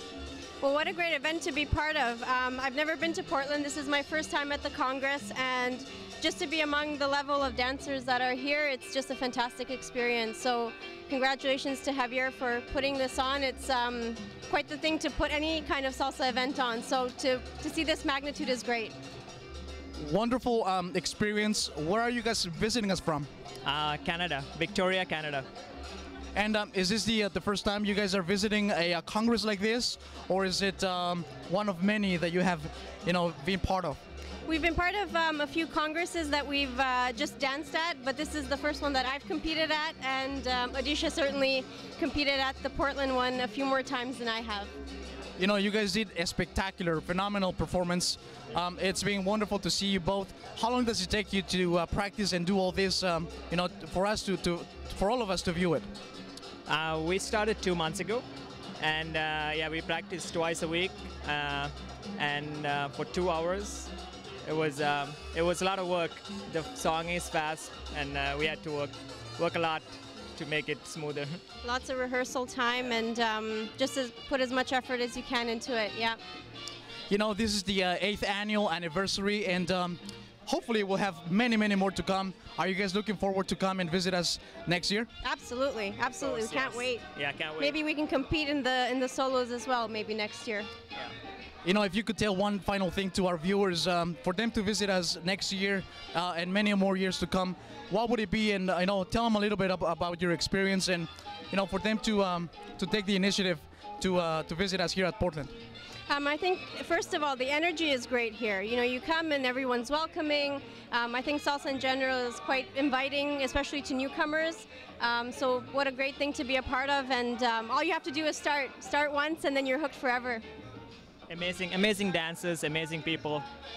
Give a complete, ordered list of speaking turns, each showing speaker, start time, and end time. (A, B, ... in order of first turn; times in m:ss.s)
0:00.6-0:19.0 A
0:20.0-0:23.3 B
0:23.6-0:25.5 C
0:26.4-0:34.0 B
0:34.5-0:44.7 A
0:45.4-0:55.9 B
0:56.7-0:58.2 C
0:58.8-1:03.9 C
1:04.4-1:11.4 C
1:11.6-1:16.2 A
1:17.1-1:25.1 B
1:25.2-1:27.1 A
1:26.2-1:27.8 C
1:27.6-1:30.7 A
1:31.6-1:45.5 B
1:46.1-2:00.4 A
2:01.3-2:03.4 C